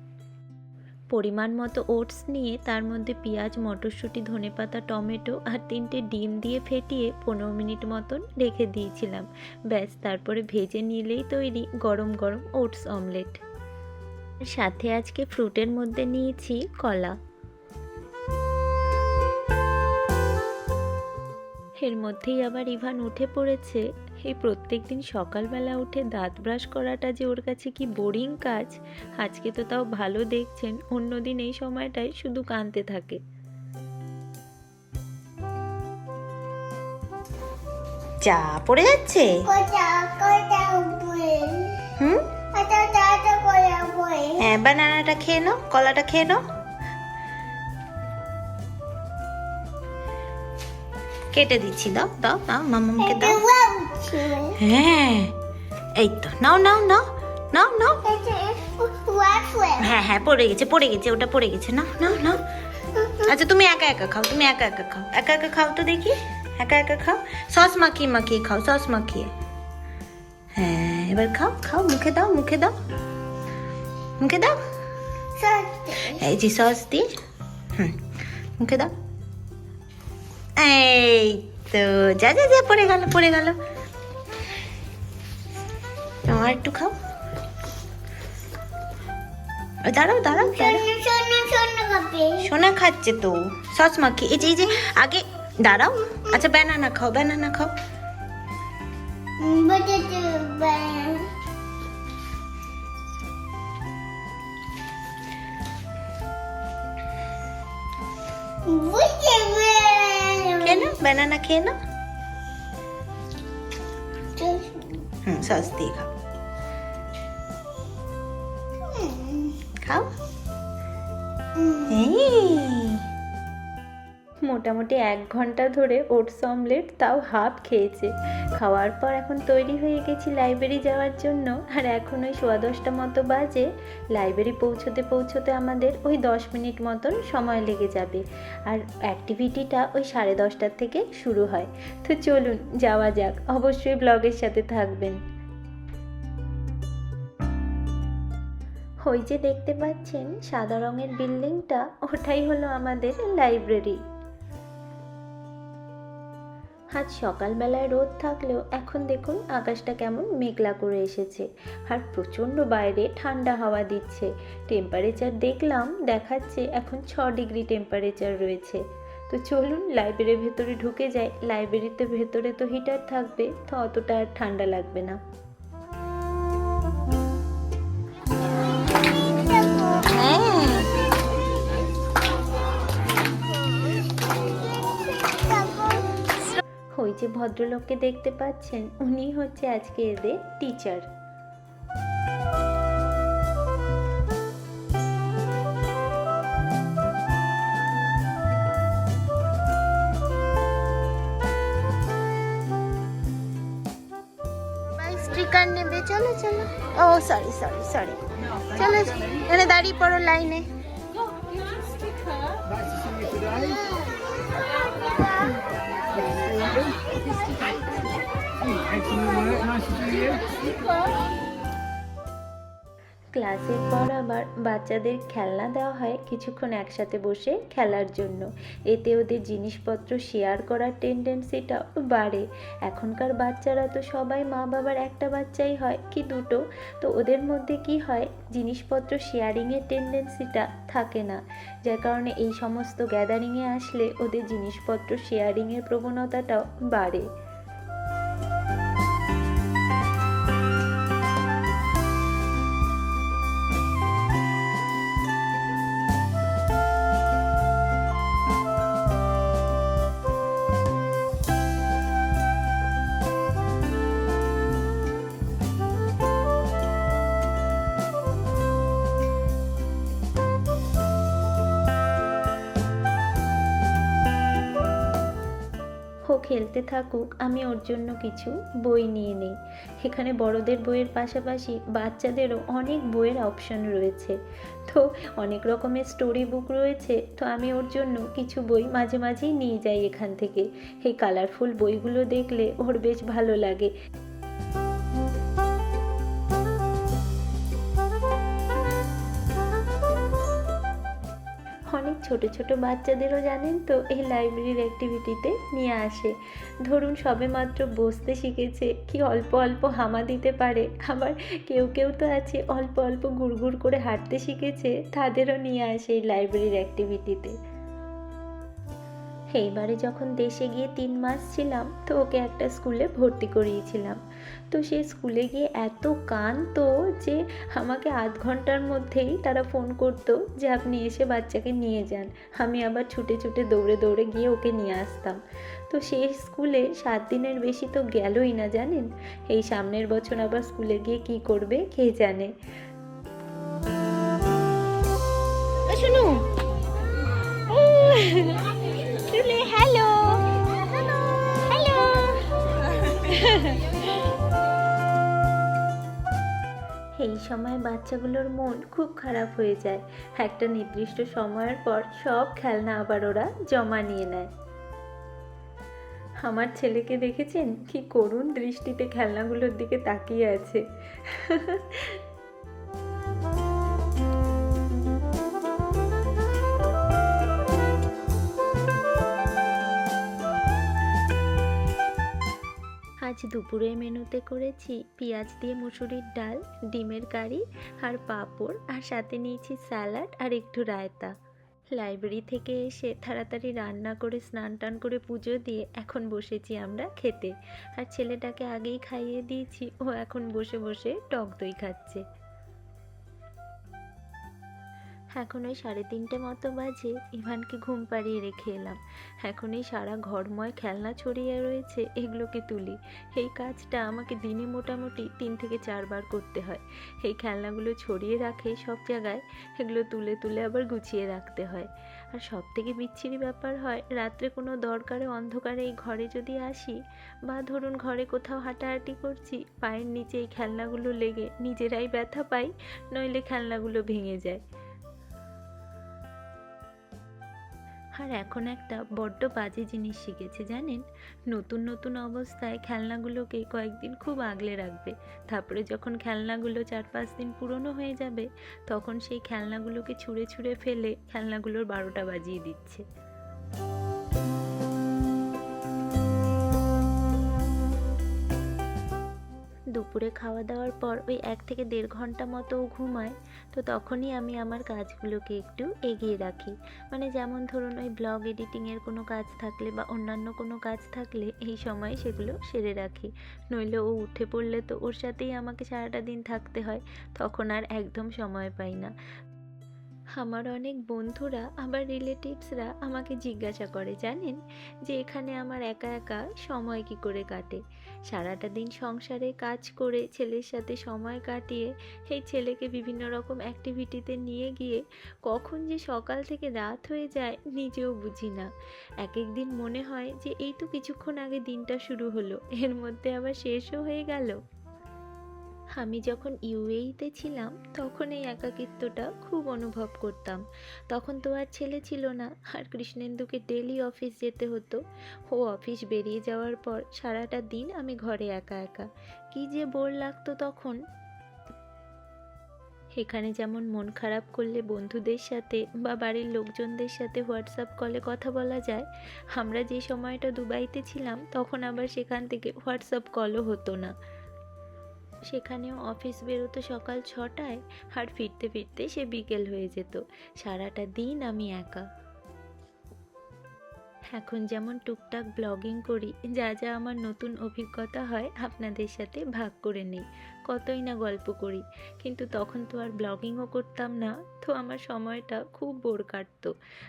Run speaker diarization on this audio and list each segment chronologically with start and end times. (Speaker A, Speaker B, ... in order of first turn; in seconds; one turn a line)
Speaker A: 1.1-13.4
Speaker A: 14.5-17.2
Speaker A: 21.8-33.2
Speaker B: 38.2-39.4
Speaker C: 39.5-41.8
Speaker C: 42.5-44.4
Speaker B: 44.4-46.4
Speaker B: 51.3-53.4
Speaker C: 53.0-54.6
Speaker B: 54.6-55.3
Speaker B: 56.0-58.0
Speaker C: 58.0-59.9
Speaker B: 59.8-62.4
Speaker C: 62.9-63.3
Speaker B: 63.2-69.3
Speaker B: 70.6-72.7
Speaker B: 74.2-74.6
Speaker C: 75.4-76.2
Speaker B: 76.1-77.2
Speaker B: 78.6-78.9
Speaker B: 80.6-83.6
Speaker B: 86.3-86.9
Speaker B: 89.8-90.8
Speaker C: 90.3-92.5
Speaker B: 92.4-97.7
Speaker C: 99.4-101.3
Speaker C: 108.6-110.9
Speaker B: 110.6-111.8
Speaker C: 114.4-115.1
Speaker B: 115.2-116.1
Speaker C: 118.9-119.6
Speaker B: 119.8-120.1
Speaker C: 121.6-122.0
Speaker B: 121.9-123.0
Speaker A: 124.5-145.2
Speaker A: 149.1-154.0
Speaker A: 156.9-175.2
Speaker C: 179.4-180.1
Speaker B: 180.1-180.9
Speaker C: 185.3-186.1
Speaker A: 186.9-191.1
Speaker B: 205.0-208.2
Speaker B: 208.7-210.7
Speaker A: 223.3-247.3
Speaker A: 276.3-284.4
Speaker A: 284.9-293.9
Speaker A: 301.9-306.3
Speaker A: 306.9-317.6
Speaker A: 319.6-324.2
Speaker A: 324.7-335.4
Speaker A: 335.9-342.5
Speaker B: 345.9-346.4
Speaker B: 347.7-348.6
Speaker B: 349.3-350.4
Speaker B: 351.7-352.3
Speaker B: 353.2-353.7
Speaker A: 357.2-364.5
Speaker A: 366.4-372.2
Speaker A: 383.2-391.3
Speaker A: 392.0-402.2
Speaker A: 405.4-434.6
Speaker A: 438.2-453.0
Speaker A: 459.9-479.1
Speaker A: 480.4-498.7
Speaker A: 499.2-504.6
Speaker A: 506.0-515.0
Speaker A: 515.5-521.0
Speaker A: 523.2-534.1
Speaker A: 535.5-542.0
Speaker A: 544.3-556.7